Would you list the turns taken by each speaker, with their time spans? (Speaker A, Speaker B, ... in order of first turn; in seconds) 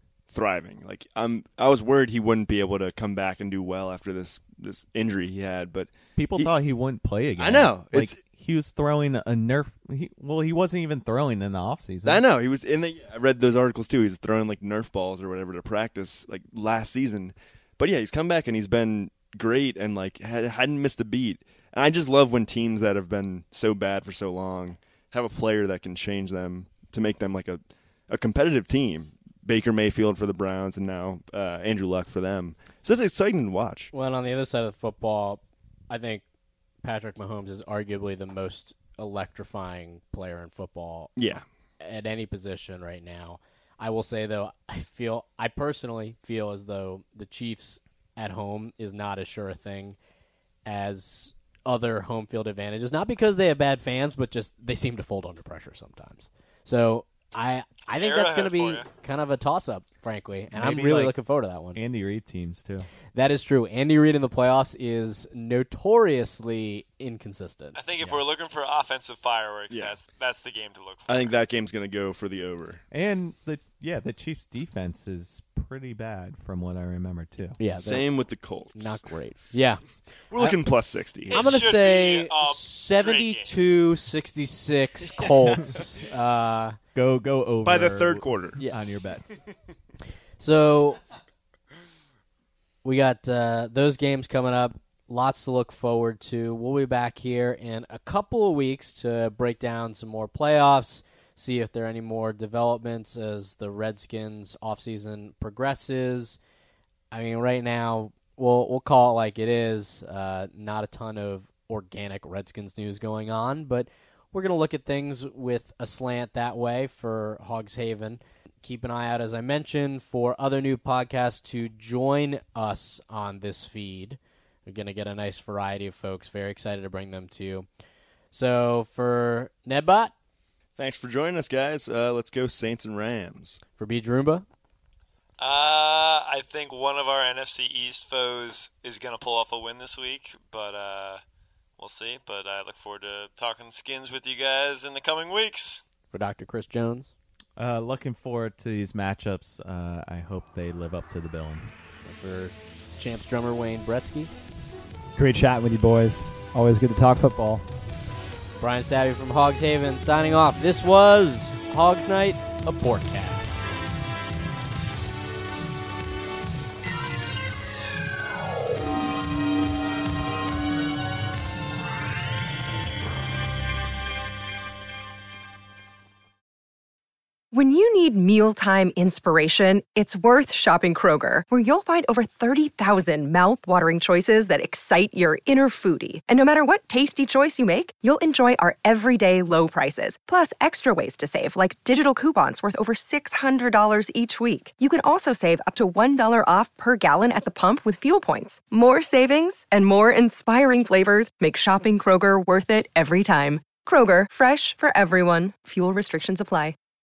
Speaker A: 0.3-6.5, 7.4-8.2, 12.0-33.9, 41.1-41.4, 69.7-70.0, 71.1-72.8, 77.7-79.0, 80.3-81.6, 87.6-88.6, 130.8-133.6
Speaker B: 6.2-12.2, 60.5-61.2, 61.7-62.9, 72.9-77.6, 86.9-89.4, 147.6-151.7
Speaker C: 33.9-36.2, 36.8-41.3, 41.8-50.0, 50.6-61.8, 63.1-67.8, 77.6-80.6, 81.3-86.8, 90.4-91.0, 92.8-106.4, 107.1-127.7, 128.3-130.1, 133.8-134.4, 146.1-147.1, 152.0-154.3, 158.6-163.6
Speaker D: 57.9-58.9, 67.7-71.4, 81.3-83.5, 135.4-141.2, 141.8-145.8
Speaker E: 155.1-157.7
Speaker F: 177.5-206.7